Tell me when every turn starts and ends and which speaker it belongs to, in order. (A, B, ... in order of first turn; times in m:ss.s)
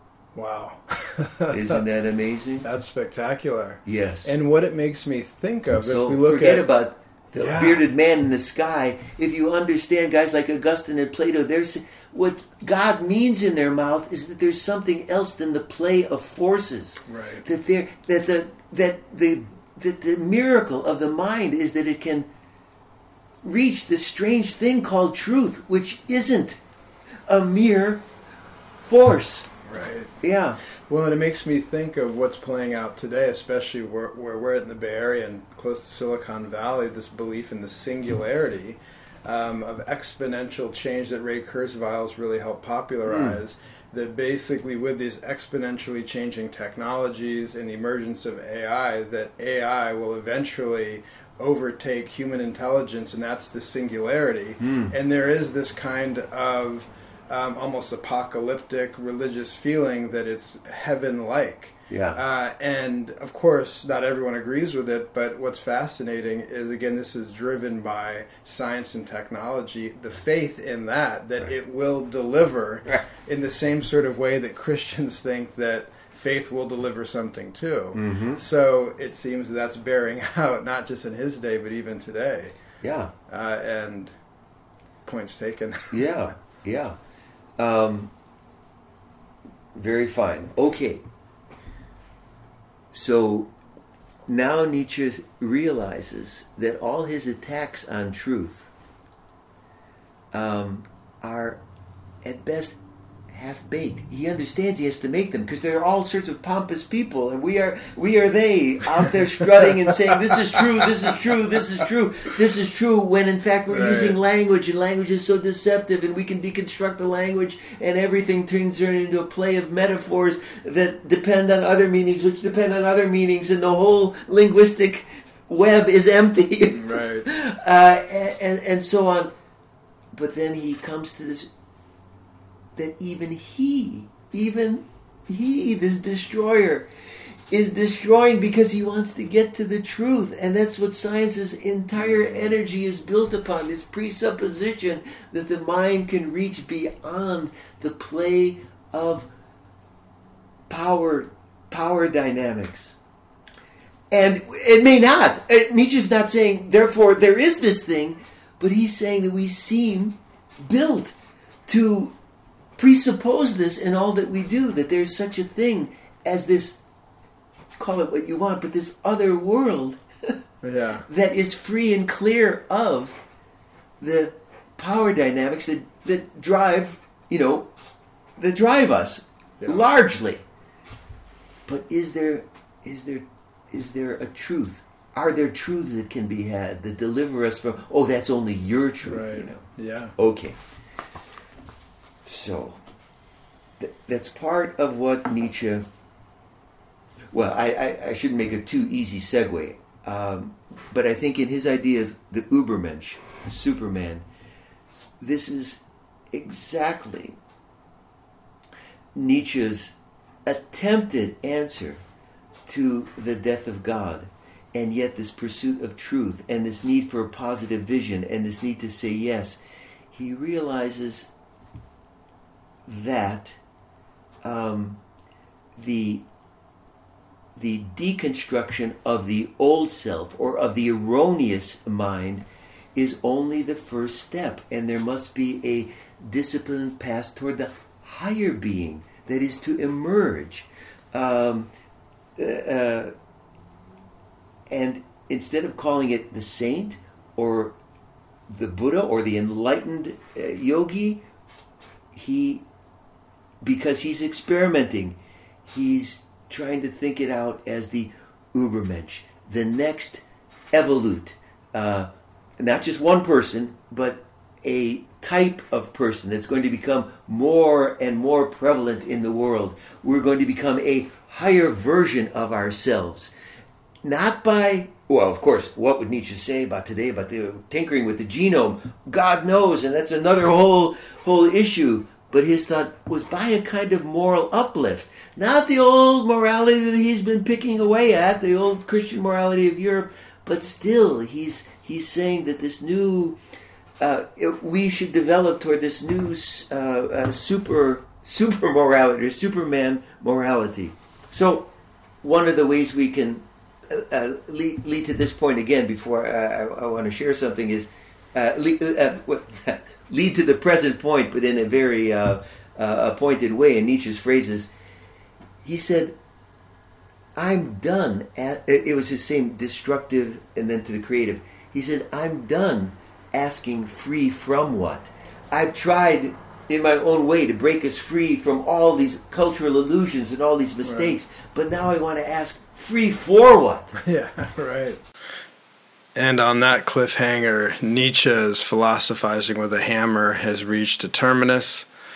0:00.3-0:01.8 A
0:01.5-0:02.7 B
0:02.6-0:06.6 A
0:03.8-0:04.3 B
0:05.8-0:22.3 B
0:07.4-0:07.8 A
0:17.1-0:17.4 A
0:23.4-0:26.6 B
0:27.3-0:28.0 B
0:28.8-0:29.5 B
0:29.6-0:30.1 A
0:30.2-0:30.6 B
0:30.9-1:22.5 A
0:43.1-0:43.4 B
0:54.6-0:54.9 B
1:01.9-1:02.2 B
1:17.9-1:18.4 B
1:22.8-1:23.1 B
1:23.3-1:24.1 A
1:25.0-1:26.0 A
1:25.9-1:27.0 B
1:27.6-1:28.1 B
1:29.7-1:31.0 B
1:32.9-1:33.5 B
1:34.3-1:38.7 B
1:40.3-1:41.6 B
1:42.2-1:42.8 B
1:43.3-2:09.3 B
1:53.7-1:54.2 A
2:06.7-2:07.3 A
2:10.1-2:11.5 B
2:12.8-2:16.9 B
2:17.5-2:29.3 B
2:30.7-2:33.0 B
2:34.1-2:41.1 B
2:41.7-2:42.1 B
2:42.8-2:46.8 B
2:47.8-2:50.4 B
2:50.6-2:51.0 A
2:51.0-2:53.2 B
2:54.0-2:57.7 B
2:58.4-3:00.4 B
3:01.6-3:09.6 B
3:09.0-3:10.1 A
3:10.2-3:10.6 B
3:12.2-3:12.8 B
3:13.8-3:15.8 B
3:17.3-3:24.2 B
3:25.2-3:27.4 B
3:29.1-3:32.0 B
3:32.6-3:39.6 B
3:40.1-3:41.3 B
3:42.8-3:43.6 B
3:44.4-3:45.0 B
3:45.8-3:46.2 B
3:47.6-4:01.7 B
4:02.4-4:03.1 B
4:04.7-4:07.8 B
4:08.5-4:11.2 B
4:12.1-4:12.6 B
4:13.6-4:33.3 B
4:34.0-4:53.4 B
4:54.0-5:01.7 B
5:02.2-5:14.7 B
5:15.6-5:16.2 B
5:17.4-5:34.0 B
5:30.8-5:31.1 A
5:34.0-5:35.0 A
5:36.1-5:41.9 A